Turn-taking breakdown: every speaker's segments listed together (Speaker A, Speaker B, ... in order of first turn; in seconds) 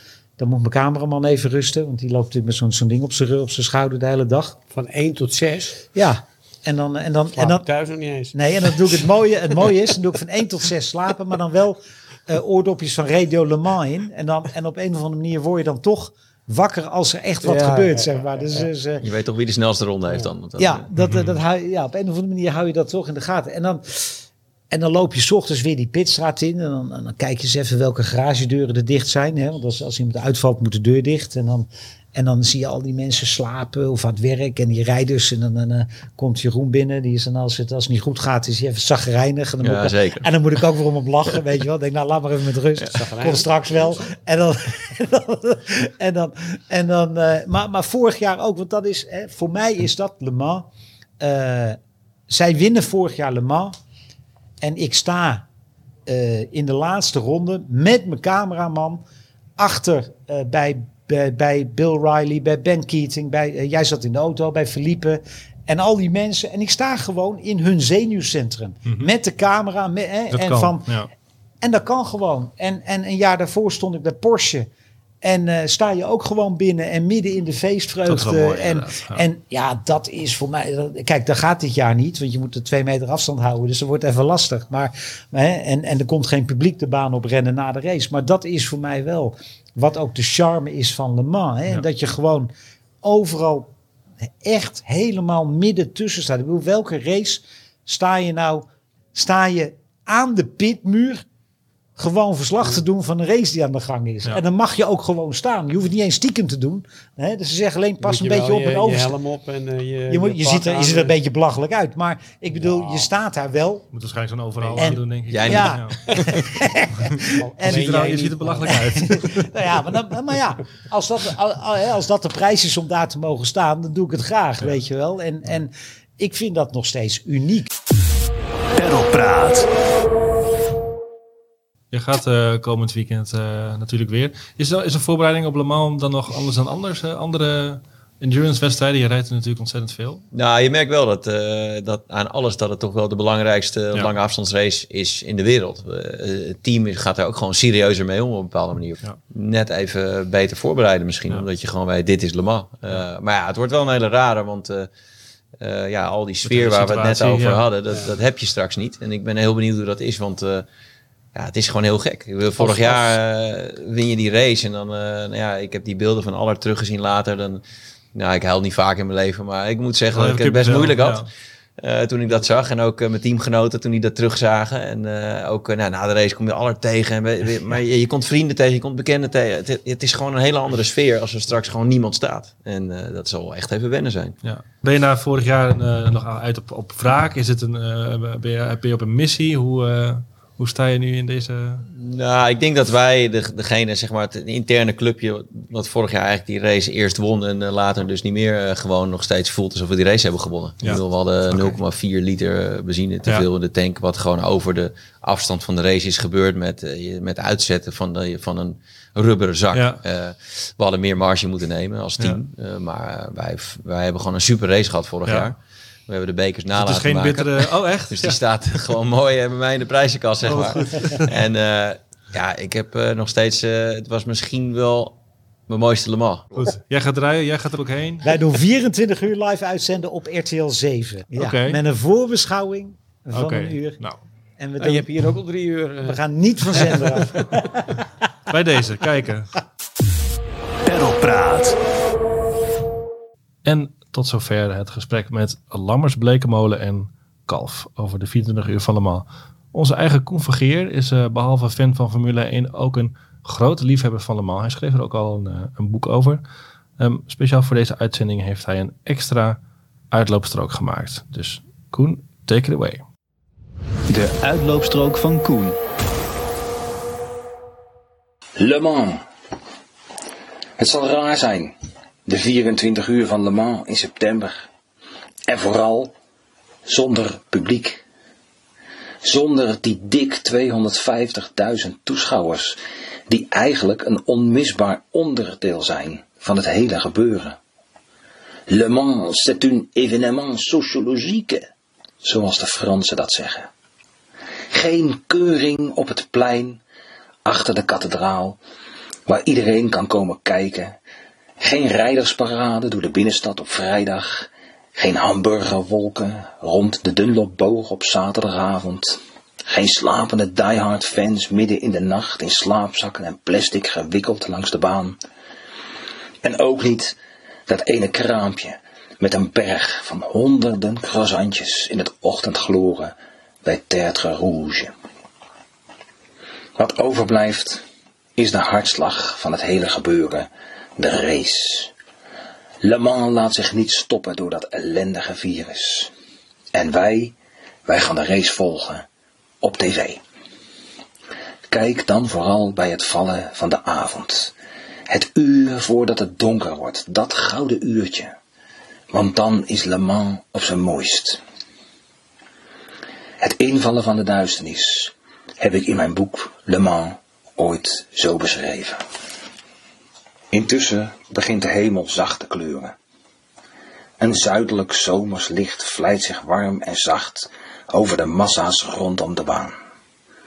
Speaker A: 0.4-4.6, 5.9-7.7, 8.3-19.1, 20.6-50.7, 51.2-53.7, 54.6-55.5, 56.1-59.0, 59.6-71.0, 71.6-74.7, 75.2-92.5, 93.0-93.7, 94.4-101.2, 102.0-109.2, 110.1-113.9, 114.8-118.2, 118.7-127.7, 228.2-234.0, 234.6-235.1, 236.1-238.0
Speaker B: 4.7-5.8, 7.3-8.8, 17.4-18.7, 42.9-43.5, 108.0-111.2, 112.6-113.1, 117.2-118.8, 162.6-163.1, 234.8-236.2, 236.7-237.6
Speaker C: 19.0-20.9, 39.6-40.3, 115.3-116.3, 140.3-154.9, 155.6-160.7, 161.3-167.6, 168.2-171.3, 171.8-184.4, 191.9-215.6, 216.1-225.2, 225.7-226.7
Speaker D: 21.0-21.4, 70.3-71.1, 78.0-79.2, 113.9-116.5, 117.6-119.5, 131.9-140.2, 156.4-157.6, 170.1-171.3, 184.4-191.9, 200.8-201.8, 209.7-210.0, 216.8-218.4, 220.4-221.3, 226.6-228.3, 231.4-231.8, 233.3-234.2, 238.5-239.6, 243.7-256.4, 257.0-259.6, 260.1-263.0
Speaker E: 128.8-129.7, 240.8-241.8, 264.1-265.8
Speaker F: 268.6-269.2, 270.8-271.7, 272.3-274.7, 275.5-276.1, 276.9-278.0, 279.2-287.6, 288.7-291.7, 292.2-293.7, 294.7-296.8, 297.4-298.6, 299.3-301.0, 301.6-315.2, 316.4-324.9, 326.8-327.8, 328.4-331.9, 332.8-336.1, 336.7-339.1, 339.6-340.2, 341.7-344.5, 345.1-348.3, 349.1-351.4, 353.4-359.0, 360.5-362.9, 364.2-369.8